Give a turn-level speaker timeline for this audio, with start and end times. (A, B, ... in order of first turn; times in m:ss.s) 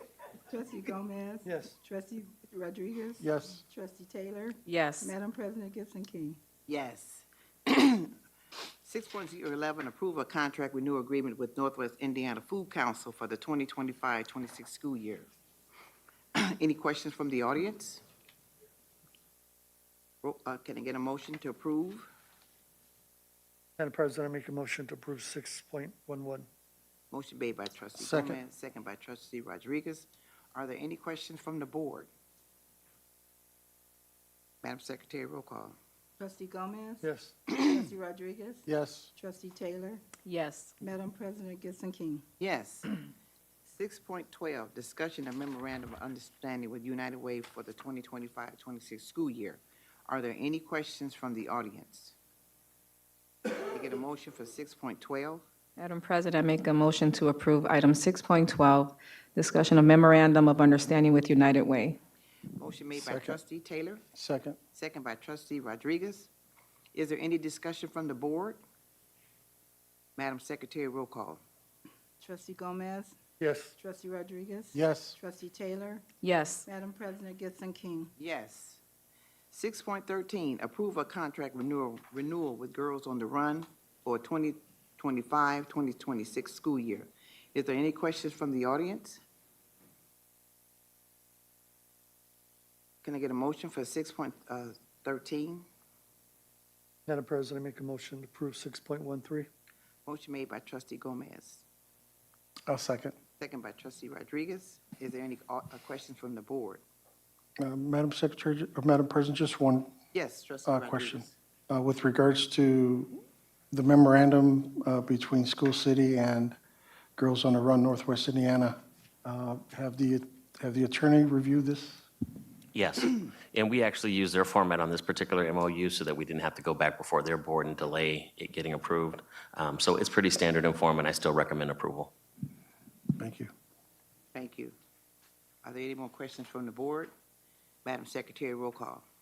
0:00.5-0:06.4 A
0:01.4-0:01.8 B
0:03.2-0:03.6 C
0:04.6-0:05.1 D
0:06.7-0:08.1 E
0:08.8-0:15.3 E
0:16.4-0:18.0 E
0:20.2-0:22.1 E
0:23.8-0:26.5 B
0:27.1-0:32.1 E
0:28.0-0:28.4 C
0:34.6-0:35.8 E
0:36.2-0:40.1 A
0:37.0-0:37.3 B
0:37.5-0:37.9 E
0:38.7-0:39.1 C
0:40.2-0:40.8 D
0:40.8-0:42.2 A
0:42.4-0:42.9 E
0:43.7-0:52.1 E
0:53.6-0:55.4 E
0:55.8-1:02.0 D
1:02.6-1:04.0 E
1:02.9-1:03.4 C
1:04.1-1:04.6 C
1:04.7-1:06.3 E
1:06.9-1:08.6 E
1:10.2-1:11.4 E
1:12.2-1:13.2 A
1:13.4-1:13.7 B
1:13.8-1:16.0 A
1:14.7-1:15.2 C
1:16.2-1:16.6 D
1:16.6-1:18.1 A
1:18.2-1:18.8 E
1:19.5-1:29.2 E
1:33.0-1:35.7 E
1:37.1-1:39.5 B
1:40.0-1:41.6 E
1:42.7-1:43.1 C
1:43.4-1:46.8 E
1:47.6-1:49.9 C
1:50.1-1:51.3 E
1:50.6-1:53.2 C
1:53.7-1:56.6 C
1:57.2-2:02.0 C
2:02.7-2:12.1 F
2:13.2-2:13.5 C
2:14.3-2:14.7 E
2:15.6-2:17.1 E
2:17.8-2:19.0 E